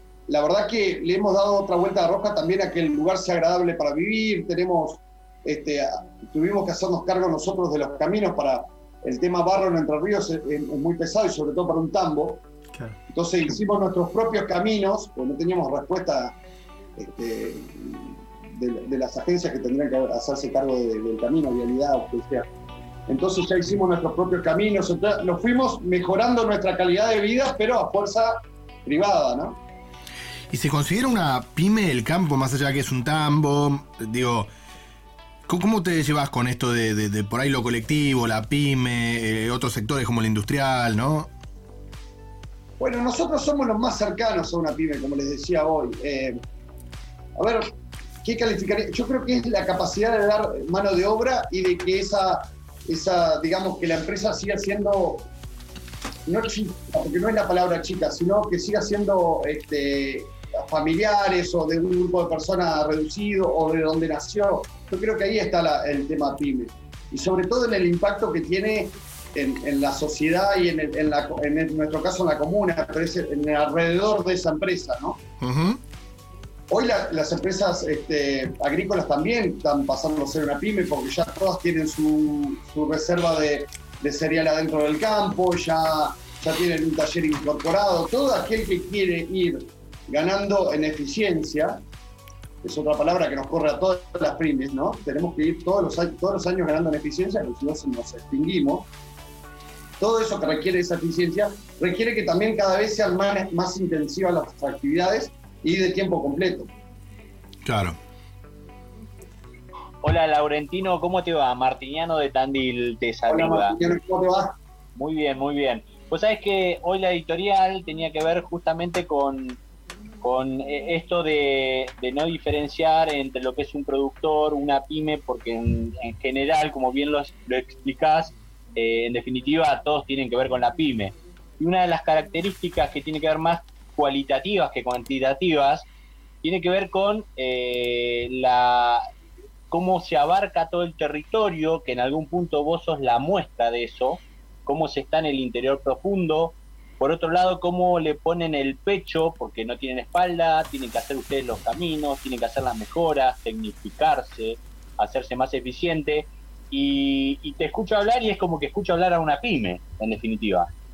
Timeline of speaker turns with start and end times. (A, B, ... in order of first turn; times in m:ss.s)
0:00.3-0:12.4 A
0:13.1-0:16.4 A
0:17.0-0:22.5 A
0:23.1-0:29.6 A
0:30.5-0:34.5 B
0:35.5-0:41.3 B
0:42.8-0:46.4 A
0:47.4-0:47.7 A
0:48.2-0:55.3 A
0:56.2-1:15.2 A
1:15.4-1:15.8 B
1:16.7-1:31.8 A
1:32.6-1:38.9 A
1:40.0-1:46.7 A
1:47.6-1:48.0 B
1:50.0-1:53.7 C
1:53.3-1:54.5 A
1:55.0-1:59.6 C
2:00.2-2:15.9 C
2:16.4-2:19.1 C
2:19.7-2:40.7 C